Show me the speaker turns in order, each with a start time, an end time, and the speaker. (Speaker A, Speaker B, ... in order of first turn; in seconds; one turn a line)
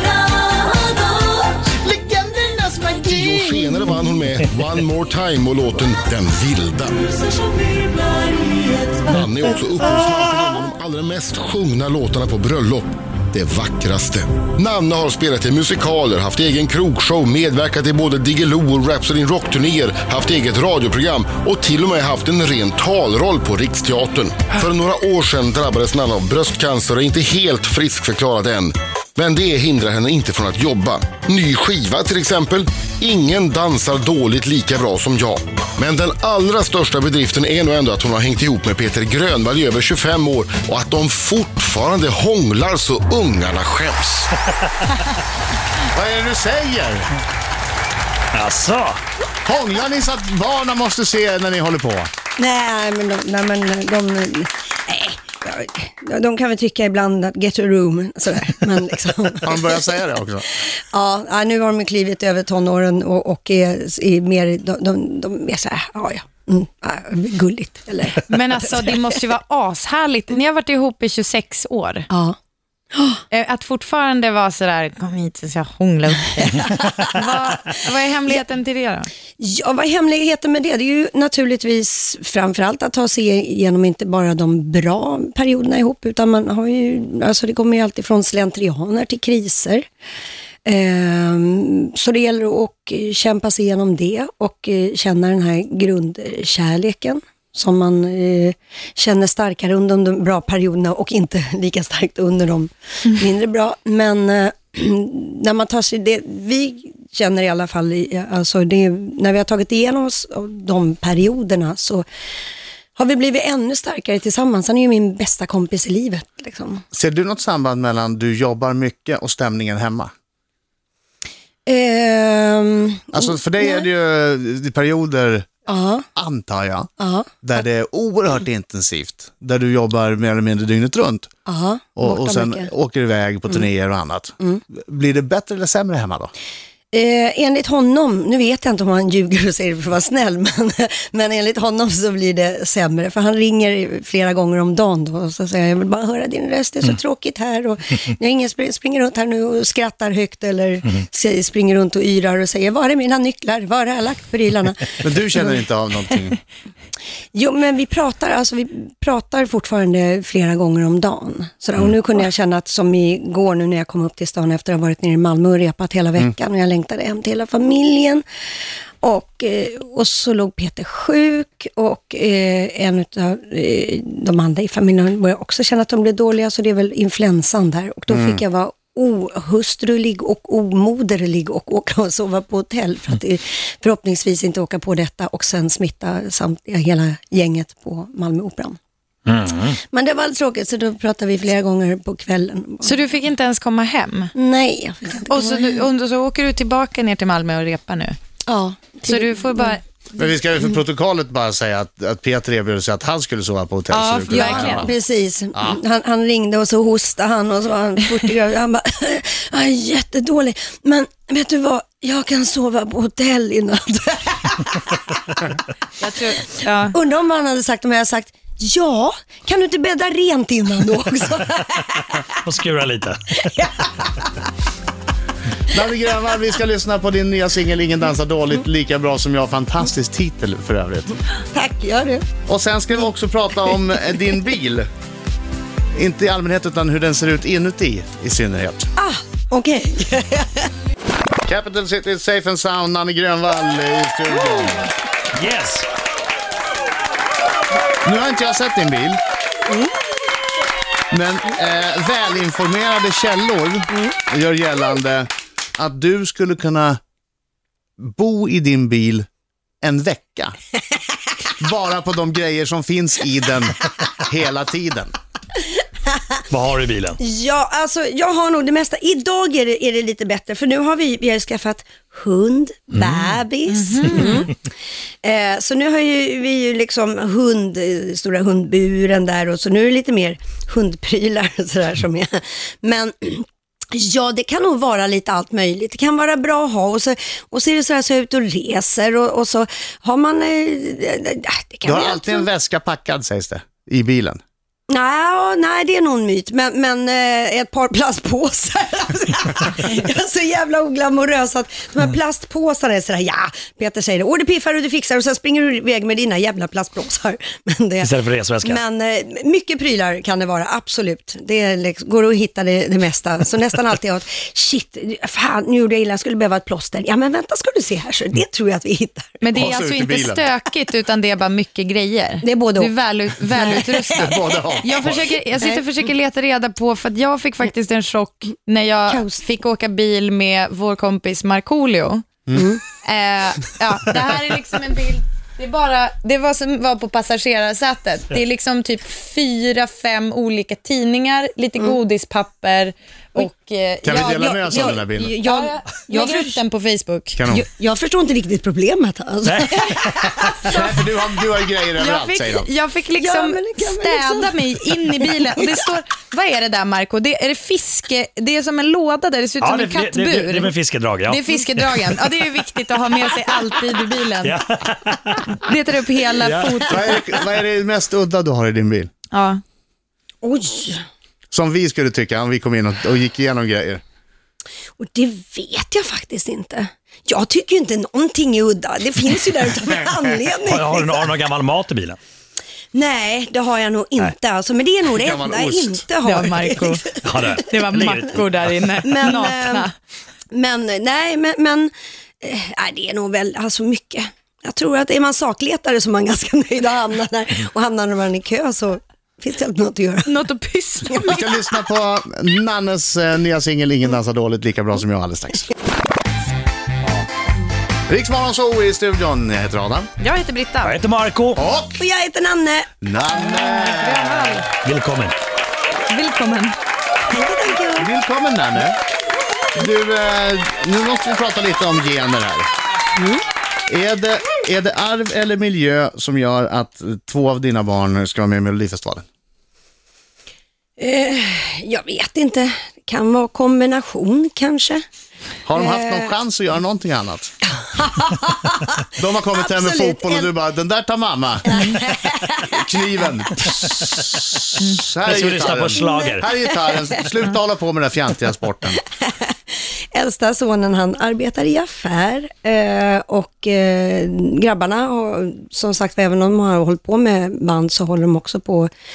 Speaker A: 1.6-3.8
Speaker B: 3.0-7.2
Speaker B: 9.0-44.4
Speaker A: 45.8-47.1
Speaker C: 48.3-49.0
Speaker A: 49.4-52.1
Speaker D: 52.4-59.8
Speaker A: 59.4-60.4
Speaker D: 60.6-69.0
Speaker E: 68.3-72.1
Speaker D: 72.1-72.4
Speaker D: 72.9-73.2
Speaker E: 73.3-79.1
Speaker D: 76.6-77.1
Speaker D: 79.4-89.9
Speaker D: 90.6-112.0
Speaker D: 113.0-116.8
Speaker A: 116.9-120.1
Speaker D: 121.7-123.8
Speaker A: 123.1-125.5
Speaker D: 125.7-126.0
Speaker A: 126.1-126.9
Speaker D: 127.0-127.3
Speaker A: 127.4-131.3
Speaker D: 131.4-132.7
Speaker A: 132.0-136.3
Speaker D: 136.9-155.4
Speaker A: 155.0-156.4
Speaker D: 157.3-168.2
Speaker D: 169.0-188.8
Speaker A: 178.1-178.4
Speaker C: 189.2-189.8
Speaker D: 189.9-193.0
Speaker E: 192.8-194.3
Speaker D: 194.3-195.8
Speaker E: 195.3-198.2
Speaker D: 198.5-199.7
Speaker E: 199.1-199.8
Speaker A: 200.2-204.9
Speaker E: 203.9-204.9
Speaker D: 204.3-215.0
Speaker E: 216.0-216.9
Speaker D: 216.5-222.2
Speaker C: 222.3-223.6
Speaker D: 223.6-223.9
Speaker A: 225.7-231.2
Speaker D: 231.5-232.2
Speaker A: 232.5-234.9
Speaker A: 235.9-238.9
Speaker D: 239.0-240.7
Speaker A: 241.4-244.9
Speaker C: 245.3-245.9
Speaker A: 248.0-249.2
Speaker A: 251.1-257.0
Speaker A: 258.0-259.3
Speaker A: 259.8-260.6
Speaker A: 261.6-265.1
Speaker C: 266.5-267.2
Speaker D: 267.2-274.5
Speaker C: 272.9-273.3
Speaker E: 273.7-274.5
Speaker D: 275.2-292.5
Speaker A: 291.9-294.4
Speaker D: 294.9-308.1
Speaker C: 308.0-308.8
Speaker D: 308.6-319.4
Speaker E: 319.4-332.2
Speaker A: 319.5-320.5
Speaker D: 322.4-322.9
Speaker D: 323.5-324.3
Speaker A: 324.1-325.3
Speaker D: 325.6-325.8
Speaker D: 329.1-329.4
Speaker D: 332.5-332.8
Speaker E: 332.9-347.4
Speaker A: 344.0-345.3
Speaker D: 344.1-346.6
Speaker A: 347.4-347.6
Speaker D: 347.5-350.8
Speaker C: 349.4-350.6
Speaker A: 350.7-352.7
Speaker E: 352.0-360.7
Speaker D: 353.2-355.8
Speaker C: 359.6-362.3
Speaker E: 361.2-364.6
Speaker C: 364.4-365.6
Speaker E: 365.5-367.4
Speaker C: 366.3-366.9
Speaker A: 366.9-369.1
Speaker E: 369.3-369.6
Speaker D: 370.4-371.0
Speaker A: 371.5-374.0
Speaker D: 375.0-381.2
Speaker C: 380.6-382.2
Speaker D: 382.9-387.0
Speaker A: 385.2-386.1
Speaker E: 386.2-389.9
Speaker C: 387.2-388.8
Speaker D: 389.0-389.9
Speaker D: 390.5-400.4
Speaker E: 400.2-401.6
Speaker A: 401.2-405.7
Speaker A: 408.1-410.1
Speaker E: 410.2-410.9
Speaker C: 410.8-411.6
Speaker A: 411.6-412.0
Speaker D: 412.0-412.9
Speaker A: 413.0-414.6
Speaker E: 413.5-414.7
Speaker C: 414.8-415.4
Speaker E: 416.1-416.7
Speaker D: 417.3-418.1
Speaker A: 418.0-419.0
Speaker A: 419.7-422.7
Speaker D: 423.1-423.4
Speaker A: 423.9-429.2
Speaker D: 431.0-435.0
Speaker A: 435.6-437.5
Speaker D: 435.7-436.3
Speaker D: 437.8-439.0
Speaker A: 439.1-442.0
Speaker D: 439.5-440.5
Speaker D: 441.6-442.8
Speaker A: 442.6-449.0
Speaker C: 445.2-446.5
Speaker D: 446.0-447.2
Speaker D: 449.2-458.9